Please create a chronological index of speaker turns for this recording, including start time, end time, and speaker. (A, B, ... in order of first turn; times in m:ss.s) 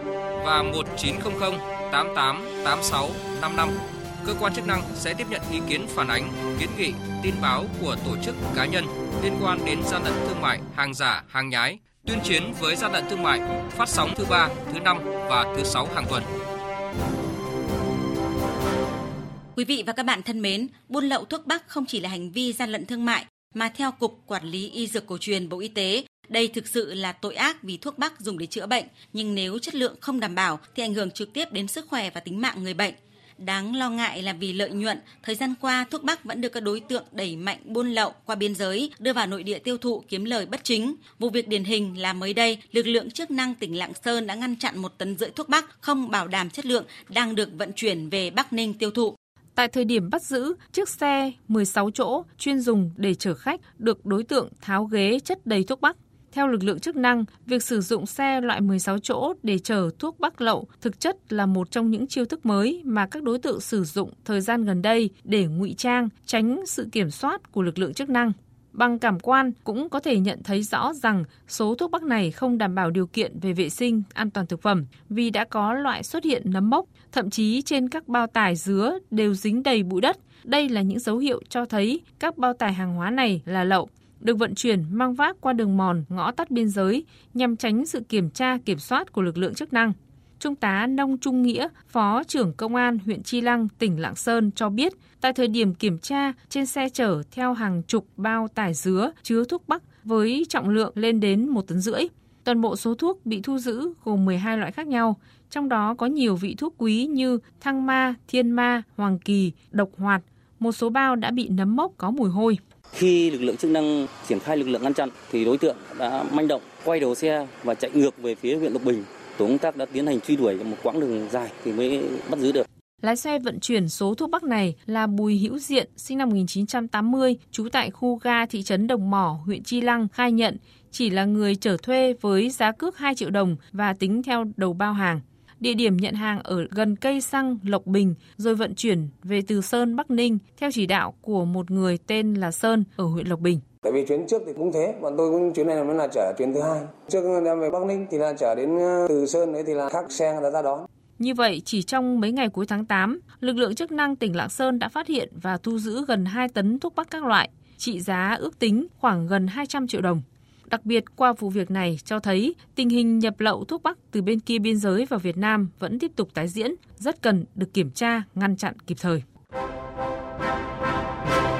0:00.4-0:16.3 A
0:19.6-0:49.2 B
0:49.5-1:52.6 C
1:52.9-2:02.6 D
2:03.0-2:23.6 C
2:23.8-2:30.9 E
2:31.2-2:49.2 C